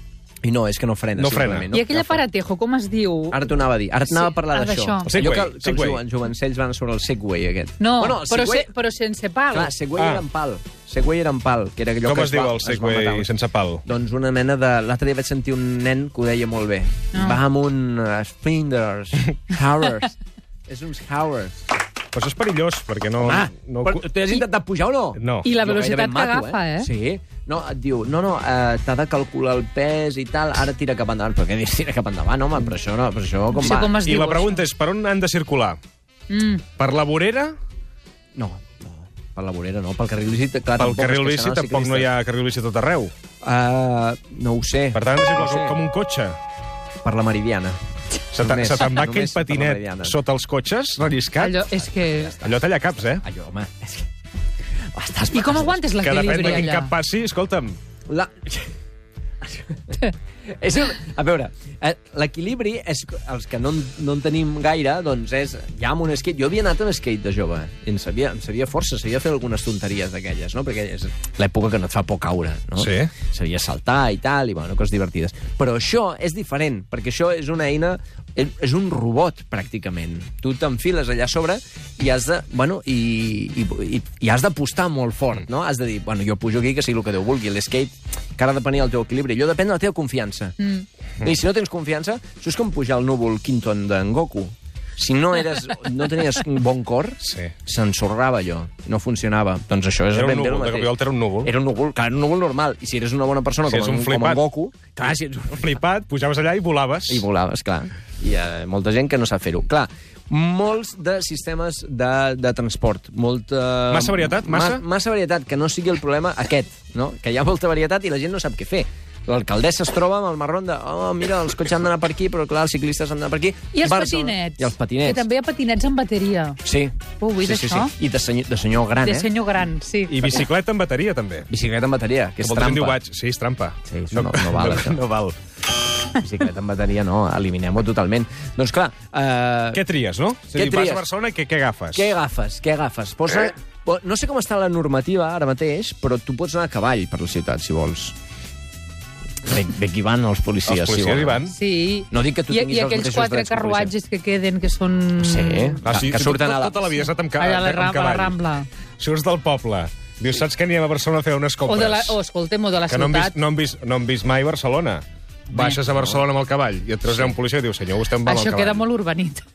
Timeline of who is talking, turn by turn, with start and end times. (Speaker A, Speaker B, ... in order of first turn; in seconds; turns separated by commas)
Speaker A: 0.4-2.2, Speaker B: 1.2-1.7, Speaker C: 1.7-3.5, Speaker A: 3.3-8.7, Speaker C: 4.1-5.2, Speaker B: 5.0-6.0, Speaker C: 7.8-9.7, Speaker A: 9.5-13.3, Speaker B: 10.0-10.2, Speaker B: 12.0-13.8, Speaker A: 13.8-21.6, Speaker C: 17.1-17.4, Speaker B: 22.1-24.1, Speaker A: 23.2-34.0, Speaker B: 25.2-25.5, Speaker C: 25.4-26.9, Speaker C: 33.6-34.6, Speaker B: 33.9-35.8, Speaker C: 36.3-36.6, Speaker B: 36.8-37.6, Speaker A: 38.4-42.1, Speaker B: 40.8-43.1, Speaker A: 43.4-45.8, Speaker B: 44.9-46.4, Speaker A: 47.0-47.8, Speaker B: 48.3-51.6, Speaker A: 48.4-50.2, Speaker C: 51.4-52.4, Speaker A: 51.8-54.1, Speaker B: 52.4-53.2, Speaker A: 54.9-56.7, Speaker C: 55.3-56.9, Speaker B: 56.0-57.8, Speaker A: 58.1-58.7, Speaker A: 59.4-90.6, Speaker B: 72.8-73.1, Speaker A: 91.2-105.7, Speaker B: 97.2-97.5, Speaker B: 100.1-101.5, Speaker B: 103.7-104.4, Speaker B: 105.0-107.2, Speaker A: 107.1-125.3, Speaker B: 113.9-114.8, Speaker C: 123.7-126.6, Speaker A: 126.6-129.3, Speaker C: 127.2-127.9, Speaker C: 129.0-130.4, Speaker B: 130.1-131.5, Speaker A: 131.5-133.0, Speaker B: 132.4-135.4, Speaker A: 133.9-135.0, Speaker A: 136.1-139.8, Speaker B: 139.7-142.1, Speaker A: 140.5-141.1, Speaker A: 141.9-148.2, Speaker A: 149.4-151.4, Speaker B: 150.7-151.6, Speaker C: 151.5-155.8, Speaker A: 152.1-153.9, Speaker A: 155.2-156.8, Speaker B: 155.8-158.4, Speaker C: 157.4-158.7, Speaker B: 159.0-162.2, Speaker C: 161.7-163.4, Speaker B: 162.9-168.8, Speaker C: 165.5-165.8, Speaker C: 168.2-169.4